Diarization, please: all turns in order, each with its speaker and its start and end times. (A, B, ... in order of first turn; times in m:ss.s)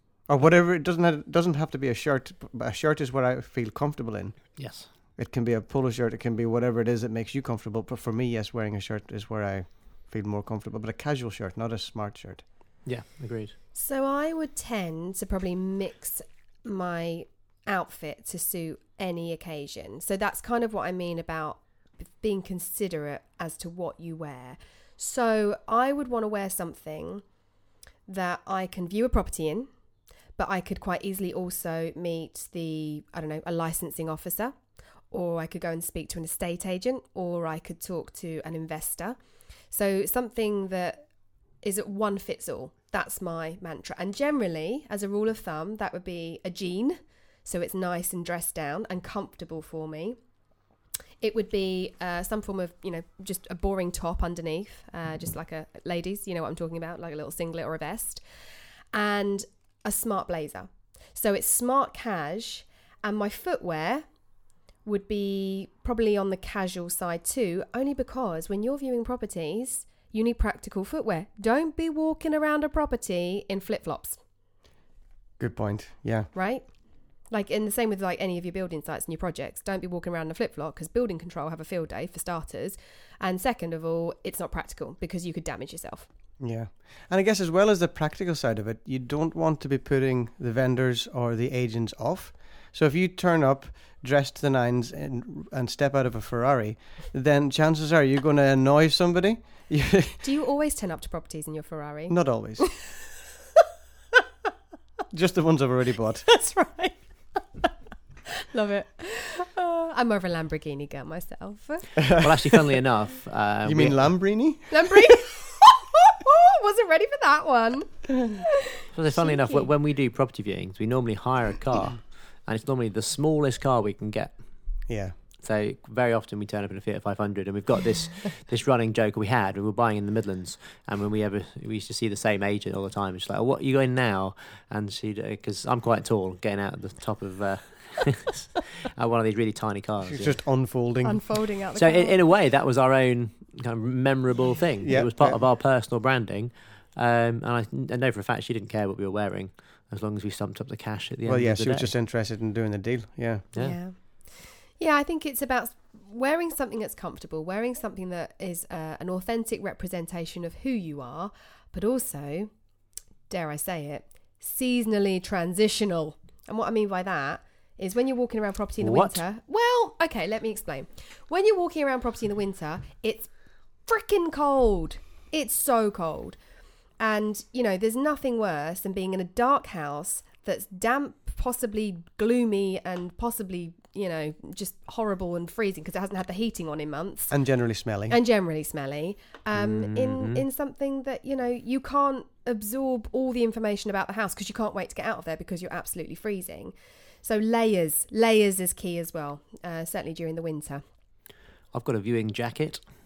0:00.3-0:04.6 A
0:04.6-0:04.9 B
0:05.2-0:12.4 A
0:12.8-0:13.5 B
0:13.7-0:27.2 C
0:28.1-0:29.7 C
0:30.4-0:34.5 C
0:35.1-0:39.2 C
0:39.7-0:41.0 C
0:41.6-0:50.2 C
0:51.2-0:58.2 C
0:58.9-1:04.0 C
1:04.8-1:14.2 C
1:15.4-1:16.3 A
1:16.3-1:16.6 C
1:17.3-1:26.1 C
1:26.4-1:40.2 A
1:40.2-1:42.9 C
1:42.1-1:42.6 A
1:45.1-1:46.3 A
1:46.3-1:47.7 C
1:48.5-1:51.9 C
1:52.0-1:52.3 A
1:52.2-1:54.0 B
1:53.6-1:55.1 A
1:54.7-1:58.5 C
1:58.9-2:04.3 B
1:59.1-1:59.7 C
2:04.9-2:05.1 A
2:05.4-2:20.3 B
2:20.0-2:21.2 A
2:21.0-2:22.2 C
2:21.8-2:31.9 B
2:24.8-2:25.4 A
2:31.2-2:33.5 A
2:33.6-2:42.5 C
2:43.3-2:53.3 C
2:48.8-2:49.2 B
2:53.9-2:56.4 C
2:57.0-3:07.3 C
3:07.3-3:08.2 A
3:08.1-3:20.8 C
3:09.5-3:10.4 B
3:21.7-3:22.8 B